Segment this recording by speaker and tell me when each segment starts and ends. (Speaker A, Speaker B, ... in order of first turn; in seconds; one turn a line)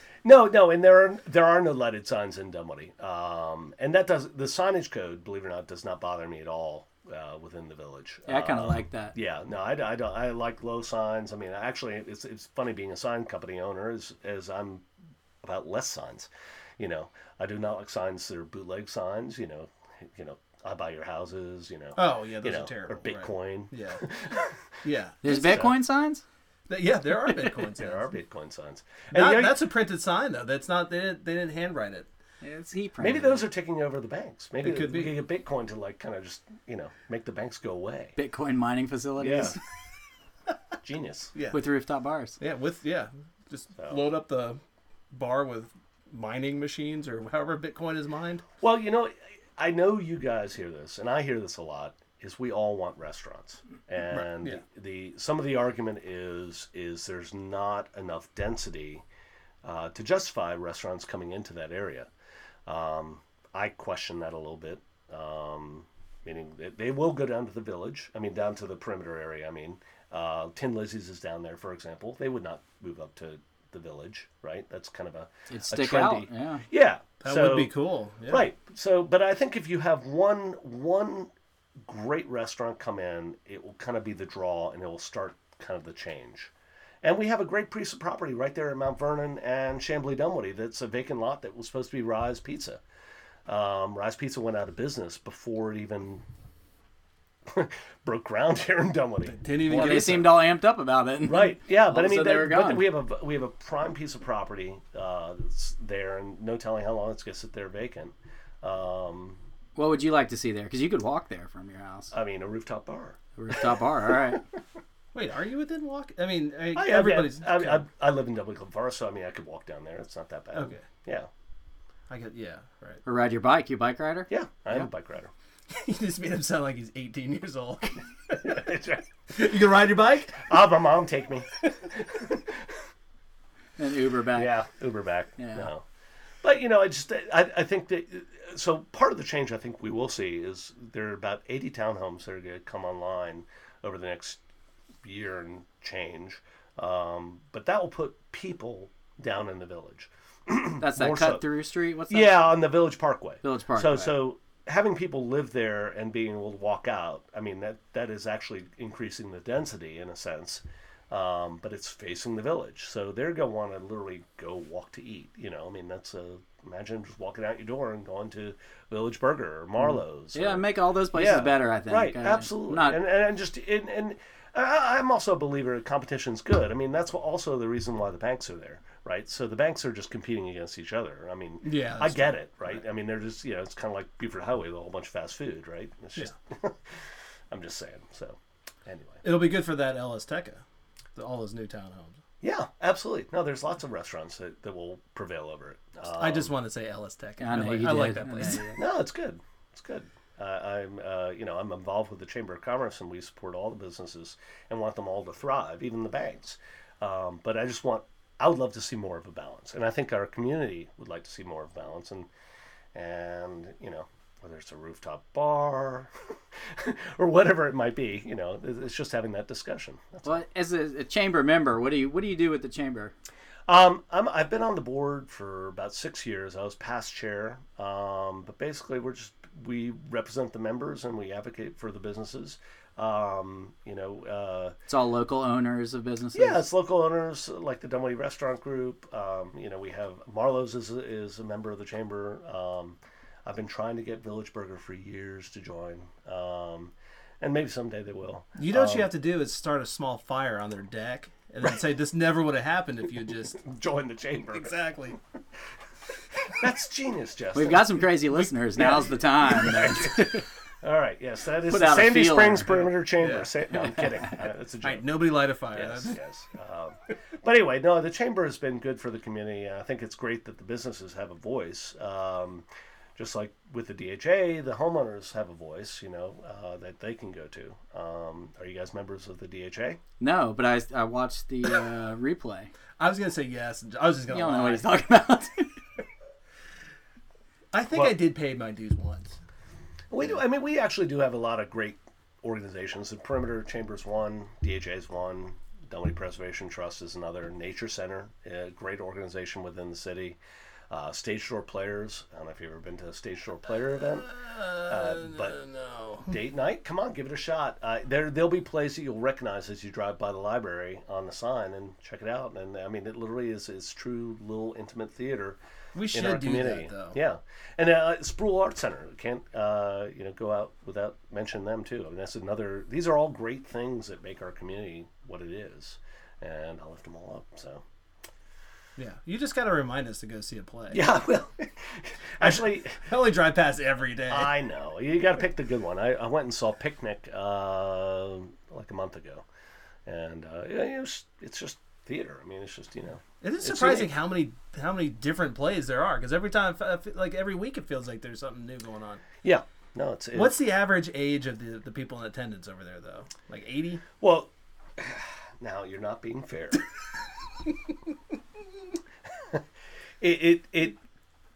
Speaker A: 0.2-14.8
Speaker B: 8.3-9.1
Speaker A: 15.4-24.6
Speaker C: 21.9-24.0
Speaker C: 24.8-25.2
Speaker B: 25.2-26.2
Speaker A: 25.2-25.8
Speaker C: 26.7-28.1
Speaker A: 27.4-29.7
Speaker C: 29.1-32.1
Speaker B: 32.4-33.4
Speaker A: 33.0-38.1
Speaker C: 34.6-35.1
Speaker B: 38.1-39.6
Speaker A: 39.2-39.6
Speaker A: 40.8-41.3
Speaker C: 41.3-41.6
Speaker B: 41.5-42.4
Speaker C: 42.4-44.6
Speaker A: 43.8-44.0
Speaker C: 45.1-48.4
Speaker A: 48.6-59.0
Speaker C: 54.1-54.6
Speaker A: 59.6-62.1
Speaker A: 62.6-81.3
Speaker B: 75.5-76.6
Speaker C: 77.2-78.5
Speaker A: 81.8-86.5
Speaker A: 87.0-92.8
Speaker A: 93.5-96.2
Speaker A: 97.5-100.2
Speaker C: 99.2-100.4
Speaker B: 99.7-102.9
Speaker A: 101.2-109.4
Speaker B: 109.8-112.1
Speaker A: 112.1-113.7
Speaker B: 113.3-114.4
Speaker C: 115.1-117.8
Speaker A: 116.7-121.3
Speaker C: 120.5-120.8
Speaker C: 122.1-123.0
Speaker B: 123.0-124.3
Speaker A: 124.3-125.3
Speaker C: 125.7-128.5
Speaker A: 128.4-129.1
Speaker C: 129.3-130.5
Speaker A: 130.4-132.6
Speaker B: 133.8-134.5
Speaker A: 134.3-135.8
Speaker B: 135.4-135.7
Speaker A: 136.4-144.4
Speaker A: 145.0-151.5
Speaker B: 150.8-152.6
Speaker A: 152.1-186.8
Speaker B: 153.4-154.1
Speaker B: 170.3-173.0
Speaker C: 181.6-182.4
Speaker A: 187.5-189.2
Speaker C: 189.2-190.6
Speaker C: 191.1-192.2
Speaker A: 192.4-196.5
Speaker C: 196.1-198.8
Speaker B: 197.4-198.8
Speaker A: 198.7-212.3
Speaker A: 212.9-216.1
Speaker A: 216.8-220.4
Speaker B: 220.2-223.1
Speaker A: 223.7-234.7
Speaker B: 234.9-236.6
Speaker A: 236.3-249.1
Speaker C: 248.6-253.6
Speaker A: 253.6-254.7
Speaker C: 254.5-255.2
Speaker A: 256.5-257.9
Speaker B: 257.5-260.4
Speaker C: 258.7-259.6
Speaker A: 258.8-272.6
Speaker B: 261.6-262.8
Speaker C: 262.8-263.5
Speaker C: 264.8-266.2
Speaker A: 273.2-280.0
Speaker B: 280.2-282.7
Speaker C: 283.0-284.9
Speaker B: 284.3-285.7
Speaker C: 287.7-289.4
Speaker A: 287.9-288.2
Speaker A: 290.1-300.4
Speaker A: 300.9-304.3
Speaker C: 304.0-306.4
Speaker A: 304.8-305.5
Speaker A: 306.2-315.6
Speaker C: 315.9-317.2
Speaker A: 316.1-327.8
Speaker C: 329.0-331.0
Speaker A: 330.9-333.1
Speaker C: 332.4-334.6
Speaker A: 334.3-339.4
Speaker A: 340.1-344.1
Speaker C: 343.4-349.2
Speaker A: 349.4-350.6
Speaker C: 350.3-354.0
Speaker A: 354.2-356.8
Speaker A: 360.2-361.0